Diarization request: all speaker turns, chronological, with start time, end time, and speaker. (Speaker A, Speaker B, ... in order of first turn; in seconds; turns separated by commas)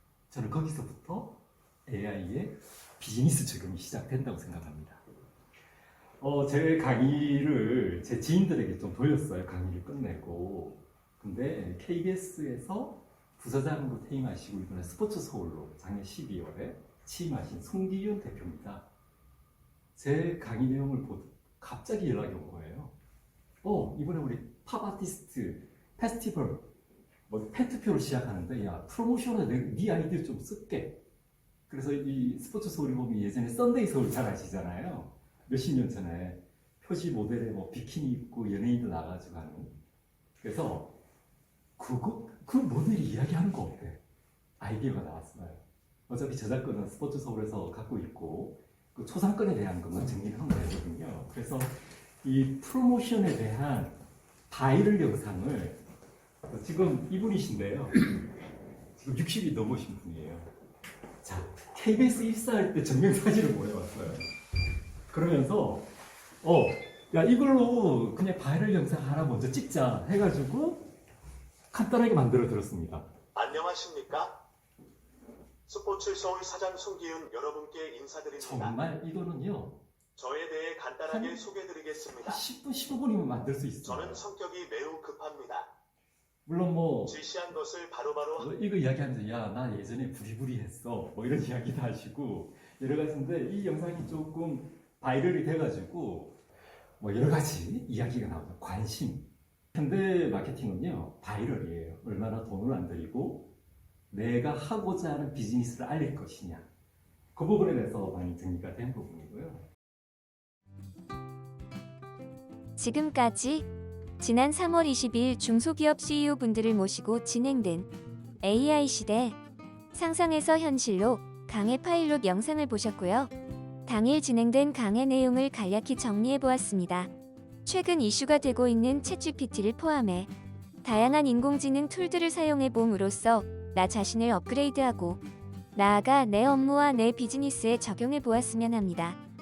Speaker A: 0.3-5.0, Speaker A: 6.2-18.9, Speaker A: 20.0-22.9, Speaker A: 23.6-26.7, Speaker A: 27.3-31.0, Speaker A: 31.7-39.8, Speaker A: 40.4-41.0, Speaker A: 41.8-44.0, Speaker A: 44.6-54.0, Speaker A: 54.5-55.8, Speaker A: 56.5-58.1, Speaker A: 59.0-60.5, Speaker A: 61.2-64.3, Speaker A: 65.1-70.9, Speaker A: 71.7-73.1, Speaker B: 73.3-74.4, Speaker B: 75.7-78.7, Speaker A: 78.4-79.8, Speaker B: 80.2-82.4, Speaker A: 81.1-81.5, Speaker A: 82.2-84.3, Speaker B: 83.8-85.7, Speaker A: 86.5-87.2, Speaker B: 87.1-88.5, Speaker A: 88.4-96.4, Speaker A: 97.0-103.5, Speaker A: 104.1-106.7, Speaker A: 107.3-109.7, Speaker C: 112.8-113.7, Speaker C: 114.2-117.9, Speaker C: 118.4-119.4, Speaker C: 119.9-123.3, Speaker C: 123.9-127.1, Speaker C: 127.7-130.3, Speaker C: 130.8-135.2, Speaker C: 135.8-139.2